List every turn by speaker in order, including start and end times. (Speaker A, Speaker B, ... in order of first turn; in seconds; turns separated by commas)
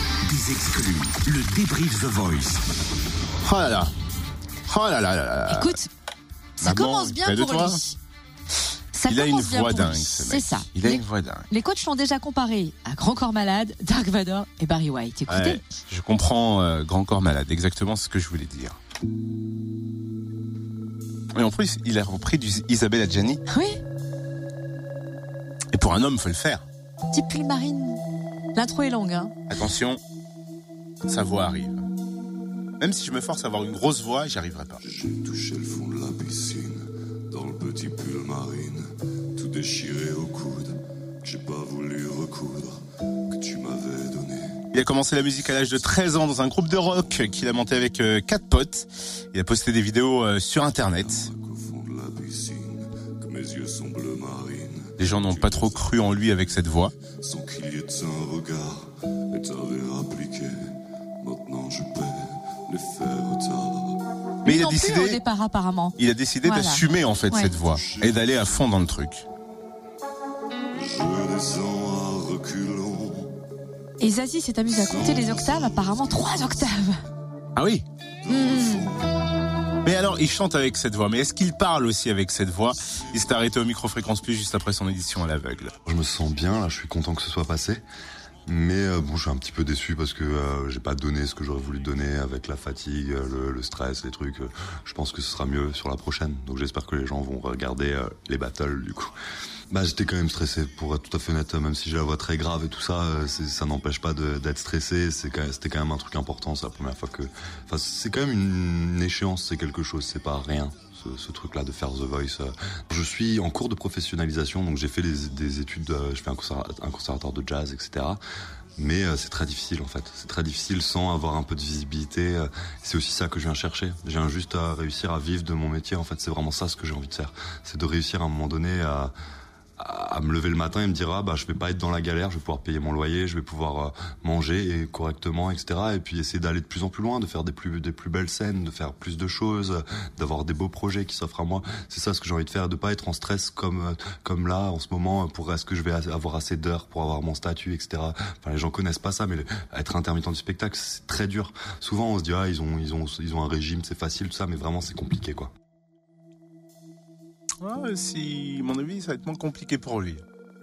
Speaker A: 0.2-2.6, Speaker B: 3.4-3.9, Speaker B: 4.7-5.8, Speaker C: 5.5-5.9, Speaker C: 6.6-8.0, Speaker B: 6.6-7.8, Speaker C: 8.9-15.6, Speaker B: 9.1-11.5, Speaker B: 15.3-18.8, Speaker B: 21.3-23.4, Speaker C: 23.5-23.8, Speaker B: 25.7-26.6, Speaker C: 27.1-28.0, Speaker C: 28.5-29.3, Speaker B: 29.5-30.0, Speaker B: 31.1-31.9, Speaker B: 32.8-34.8, Speaker D: 34.8-38.8, Speaker D: 39.4-42.8, Speaker D: 43.3-44.6, Speaker B: 44.7-51.3, Speaker D: 51.0-55.8, Speaker B: 55.0-56.9, Speaker D: 57.2-60.5, Speaker D: 61.2-64.0, Speaker C: 64.4-67.5, Speaker B: 64.5-65.2, Speaker B: 66.0-69.2, Speaker D: 67.0-68.5, Speaker D: 70.8-73.4, Speaker C: 74.0-77.0, Speaker D: 74.7-76.7, Speaker B: 77.6-77.8, Speaker D: 78.2-79.1, Speaker C: 78.3-78.9, Speaker B: 79.8-85.7, Speaker E: 85.8-87.8, Speaker E: 88.5-99.1, Speaker E: 99.7-118.2, Speaker E: 118.8-129.1, Speaker E: 129.8-155.5, Speaker B: 157.6-160.2